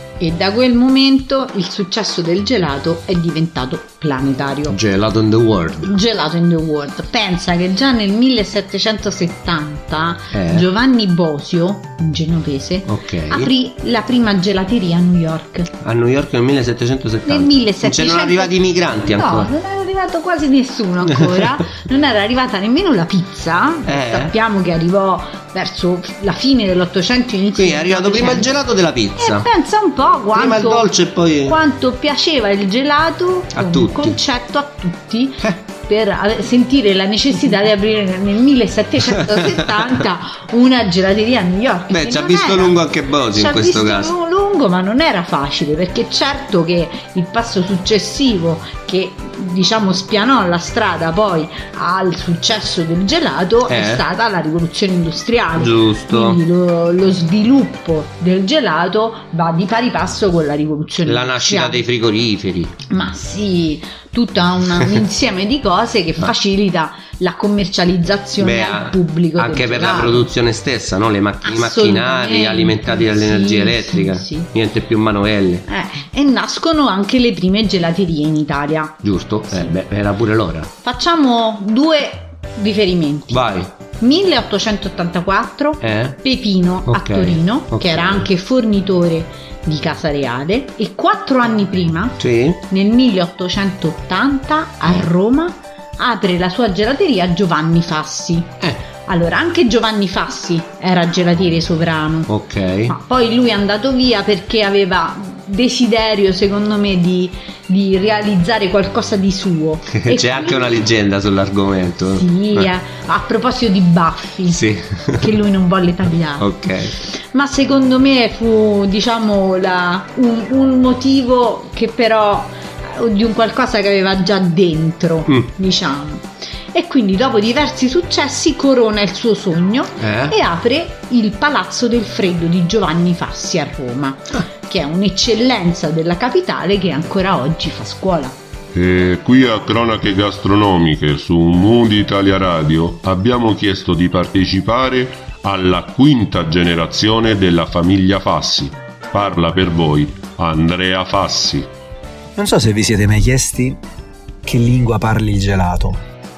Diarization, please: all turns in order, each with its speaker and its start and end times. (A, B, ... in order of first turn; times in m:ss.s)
0:00.2-0:04.8 A
0:04.7-0:05.9 B
0:05.8-0:15.7 A
0:10.3-0:10.7 B
0:12.8-0:13.5 B
0:15.8-0:19.5 B
0:17.2-0:28.5 A
0:21.1-0:21.6 B
0:23.9-0:24.3 B
0:27.6-0:29.5 B
0:29.2-0:30.9 A
0:30.3-0:31.6 B
0:31.4-0:42.8 A
0:33.5-0:34.2 B
0:41.9-0:44.1 B
0:43.3-1:01.8 A
0:53.7-0:54.0 B
0:55.6-0:56.4 B
1:01.0-1:02.8 B
1:02.9-1:10.3 A
1:08.4-1:15.6 B
1:11.4-1:14.5 A
1:15.7-1:19.0 A
1:19.0-1:20.7 B
1:20.8-1:23.4 A
1:23.3-1:23.7 B
1:24.0-1:42.3 A
1:25.8-1:26.2 B
1:26.9-1:28.2 B
1:32.2-1:32.6 B
1:42.3-1:42.9 B
1:42.9-1:50.8 A
1:49.9-1:52.7 B
1:52.1-1:54.6 A
1:54.5-1:55.3 B
1:55.2-1:56.5 A
1:56.4-1:57.0 B
1:57.0-2:18.4 A
2:10.0-2:10.3 B
2:18.7-2:31.7 C
2:32.4-2:33.8 D
2:34.4-2:36.0 D